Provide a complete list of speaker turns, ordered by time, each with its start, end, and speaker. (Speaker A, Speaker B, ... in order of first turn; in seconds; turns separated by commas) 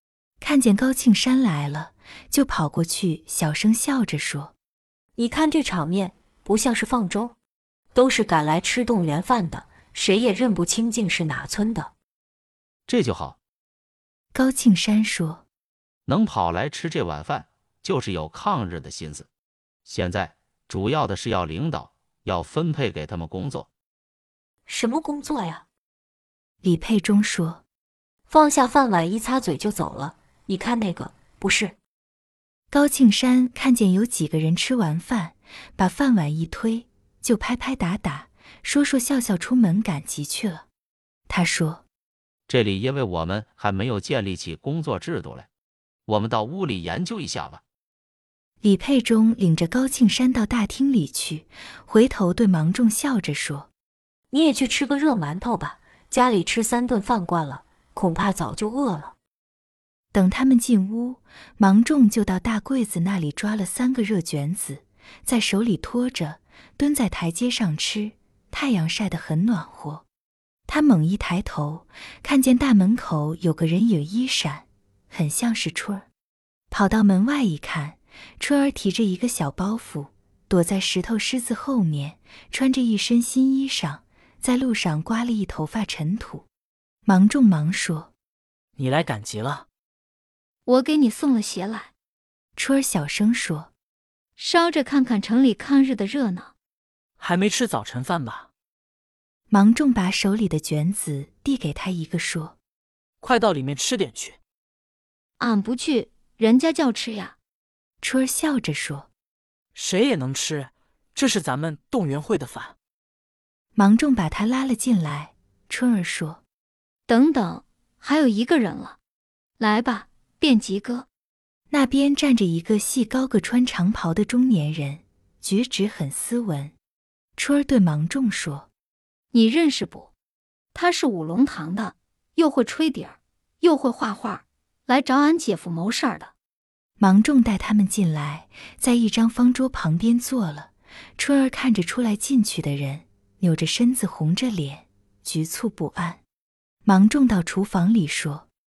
Speaker A: 0.4-4.5, Speaker B: 5.2-7.3, Speaker B: 7.9-11.9, Speaker C: 12.9-13.4, Speaker A: 14.3-15.4, Speaker C: 16.1-19.3, Speaker C: 19.8-23.7, Speaker B: 24.7-25.6, Speaker A: 26.6-27.6, Speaker B: 28.3-31.8, Speaker A: 32.7-40.6, Speaker A: 41.3-41.8, Speaker C: 42.5-45.5, Speaker C: 46.1-47.6, Speaker A: 48.6-53.7, Speaker B: 54.3-59.1, Speaker A: 60.1-70.0, Speaker A: 70.7-76.1, Speaker A: 76.7-86.5, Speaker A: 87.0-88.1, Speaker D: 88.8-89.6, Speaker E: 90.7-91.9, Speaker A: 92.5-93.7, Speaker E: 94.4-96.5, Speaker D: 97.2-98.5, Speaker A: 99.5-102.5, Speaker D: 103.2-104.4, Speaker E: 105.4-107.3, Speaker A: 108.0-109.1, Speaker D: 109.7-112.7, Speaker A: 113.8-116.4, Speaker E: 117.1-119.0, Speaker E: 119.6-121.0, Speaker A: 121.7-126.7, Speaker A: 127.4-128.7, Speaker E: 129.3-130.1, Speaker E: 130.7-136.3, Speaker A: 137.0-146.2, Speaker A: 146.8-148.5